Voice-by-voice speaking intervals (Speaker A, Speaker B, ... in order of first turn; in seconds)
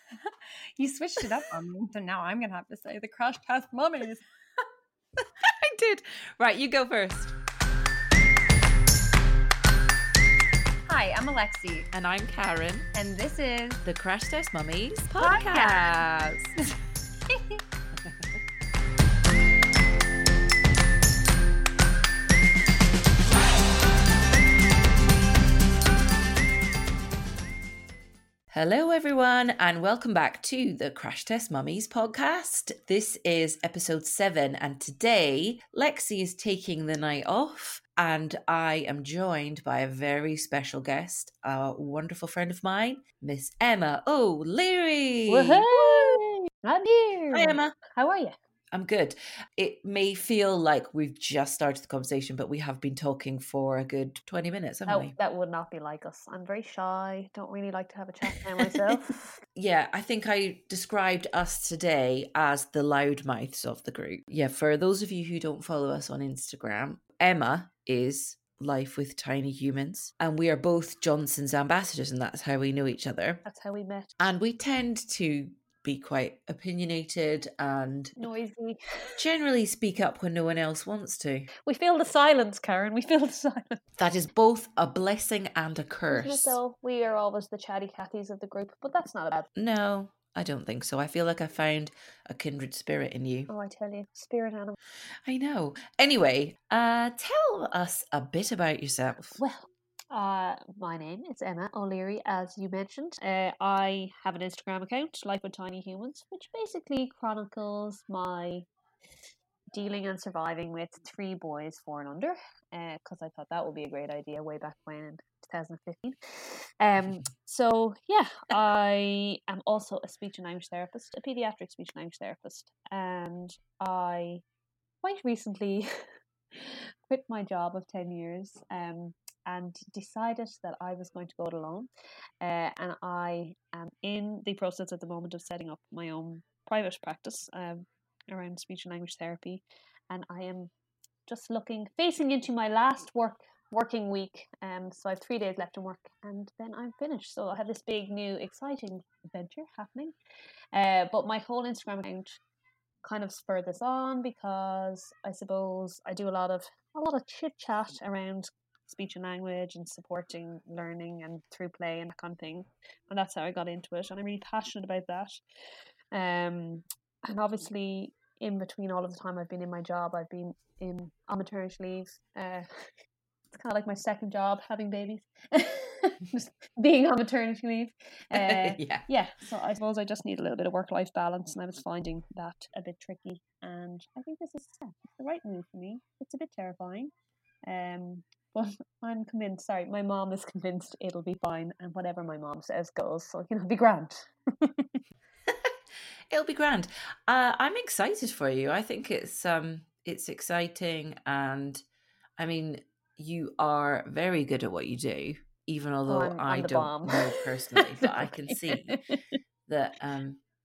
Speaker A: 0.1-4.2, 10.8-11.9, 12.9-13.8, 15.2-15.9
Speaker B: 5.5-7.3, 11.9-12.9, 13.8-16.5, 28.5-46.2, 47.3-47.8, 48.7-55.1, 59.5-73.4, 74.2-78.2, 79.2-81.5, 84.0-86.6, 89.6-93.5, 95.2-99.4, 178.3-179.1, 195.5-195.7, 196.3-201.8, 202.4-209.0, 209.7-210.4
Speaker C: 45.3-48.3, 54.9-59.4, 73.5-74.3, 78.2-79.2, 81.6-83.8, 86.1-89.5, 93.5-94.8, 99.4-108.7, 109.7-124.4, 125.0-131.9, 132.4-140.7, 141.3-150.2, 150.7-152.4, 153.0-165.4, 166.1-172.9, 173.5-187.1, 187.6-195.0, 206.1-209.2